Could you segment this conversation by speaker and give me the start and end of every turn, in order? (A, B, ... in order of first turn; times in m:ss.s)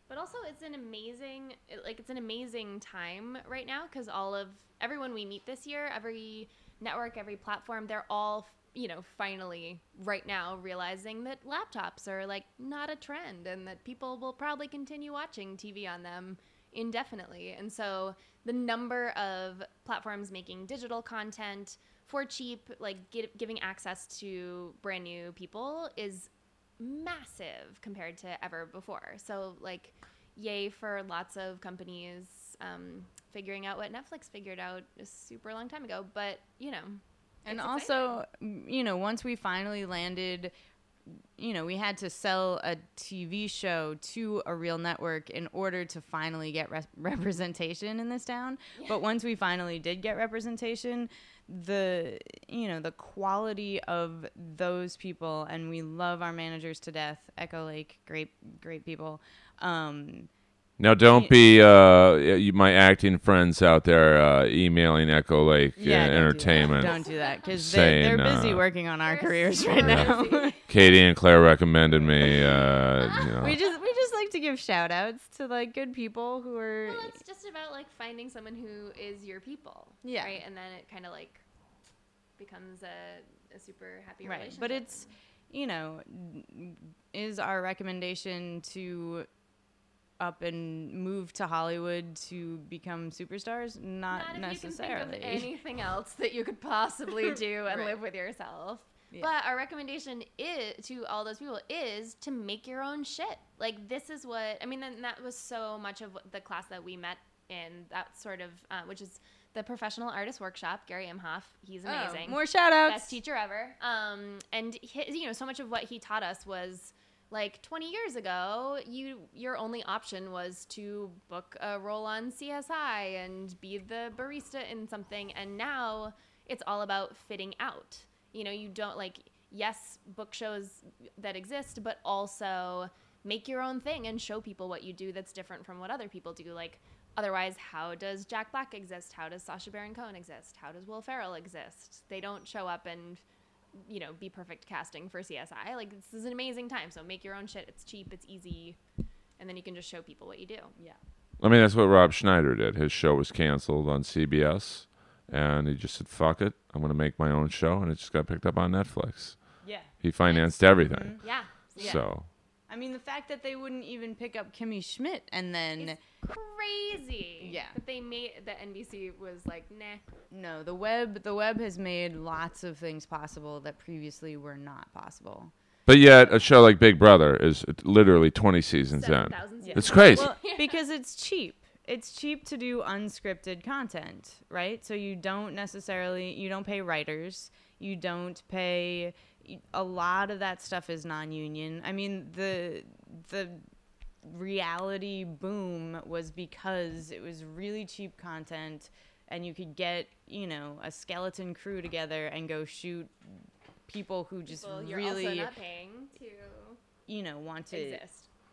0:00.1-0:38.2 A
0:37.4-0:40.5 B
0:41.1-1:00.3 B
0:48.7-0:49.0 A
1:00.8-1:08.6 C
1:01.0-1:01.4 B
1:05.8-1:10.6 B
1:09.0-1:10.7 A
1:09.8-1:10.1 C
1:10.7-1:13.6 C
1:12.0-1:12.6 B
1:13.0-1:13.4 A
1:13.3-1:17.2 B
1:16.8-1:21.4 A
1:20.0-1:20.4 B
1:22.4-1:25.1 A
1:24.2-1:29.3 B
1:30.2-1:35.5 B
1:34.1-2:23.2 A
1:37.6-1:38.0 B
1:51.8-1:53.2 B
2:23.8-2:28.8 A
2:29.4-2:30.7 A
2:31.4-2:39.4 C
2:39.6-2:39.9 B
2:40.0-2:42.3 C
2:40.2-2:40.5 A
2:40.9-2:41.2 B
2:41.2-2:42.0 A
2:41.8-2:42.0 B
2:42.7-2:46.0 B
2:45.8-2:50.0 A
2:47.4-2:47.8 B
2:50.3-2:55.5 B
2:55.8-3:00.3 C
2:58.9-3:00.8 A
2:59.6-3:13.6 B
3:14.2-3:25.5 B
3:24.5-3:26.8 A
3:27.1-3:28.0 B
3:27.7-3:28.3 A